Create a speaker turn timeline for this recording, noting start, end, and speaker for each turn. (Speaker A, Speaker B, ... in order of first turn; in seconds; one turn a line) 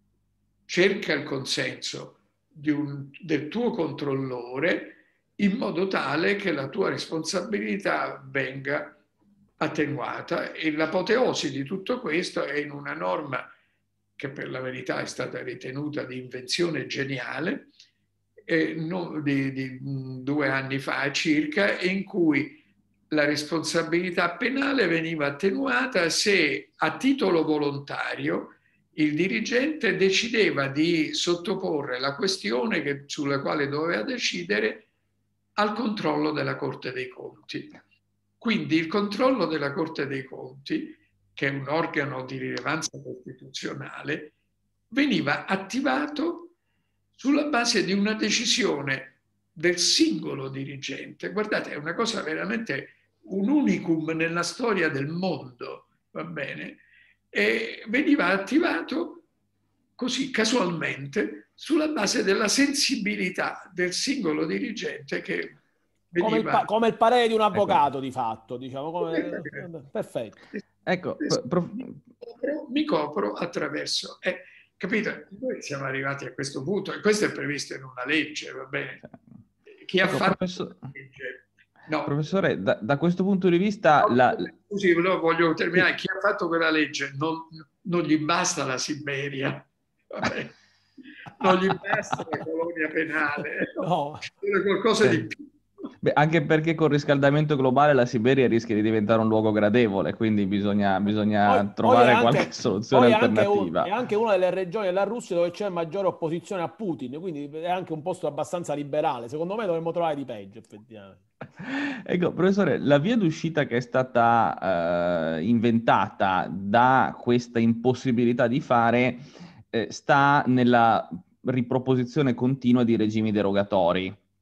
Speaker A: 0.7-9.0
Speaker A: 9.6-13.5
Speaker A: 14.2-17.7
Speaker A: 18.5-34.9
Speaker A: 35.6-37.8
Speaker A: 38.4-44.3
Speaker A: 44.9-46.5
Speaker A: 47.1-59.3
Speaker A: 60.0-65.6
Speaker A: 66.1-66.7
Speaker B: 66.2-70.4
Speaker C: 67.5-67.8
Speaker A: 69.0-69.6
Speaker C: 70.9-72.0
Speaker A: 71.2-79.0
Speaker A: 79.8-82.1
Speaker C: 80.0-80.9
Speaker C: 82.1-84.5
Speaker A: 84.0-90.5
Speaker A: 91.3-95.5
Speaker B: 93.8-94.3
Speaker C: 95.0-95.3
Speaker C: 96.0-103.9
Speaker B: 101.5-111.2
Speaker C: 111.6-124.2